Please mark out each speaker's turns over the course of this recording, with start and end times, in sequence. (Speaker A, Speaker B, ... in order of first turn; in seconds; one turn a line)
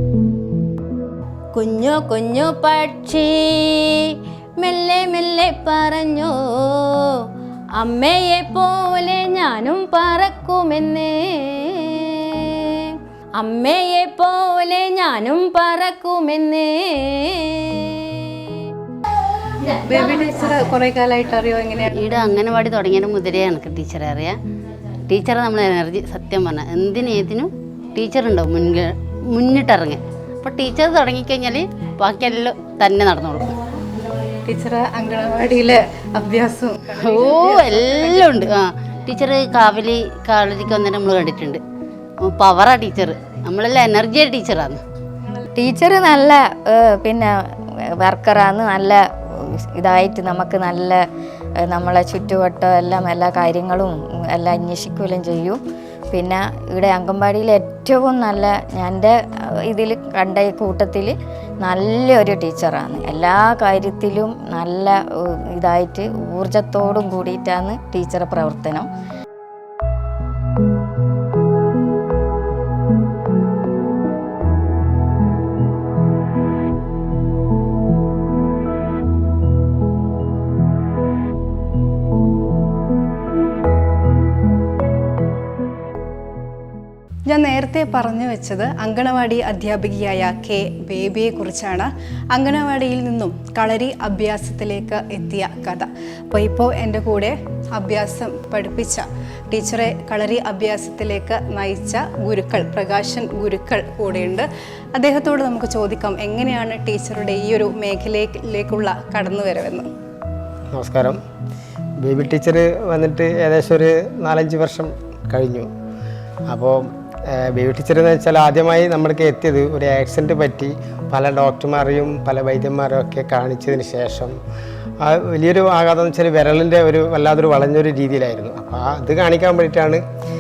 Speaker A: 1.6-3.6
Speaker A: 4.6-6.3
Speaker A: 7.8-11.1
Speaker A: 13.4-18.3
Speaker B: 19.8-22.0
Speaker C: 21.9-24.4
Speaker C: 25.1-33.5
Speaker B: 34.5-38.5
Speaker C: 37.0-41.6
Speaker C: 42.2-44.8
Speaker D: 45.5-51.0
Speaker D: 51.6-55.6
Speaker D: 56.1-68.9
Speaker B: 87.3-109.9
Speaker E: 110.7-111.2
Speaker E: 112.0-115.7
Speaker E: 116.5-124.3
Speaker E: 125.0-130.0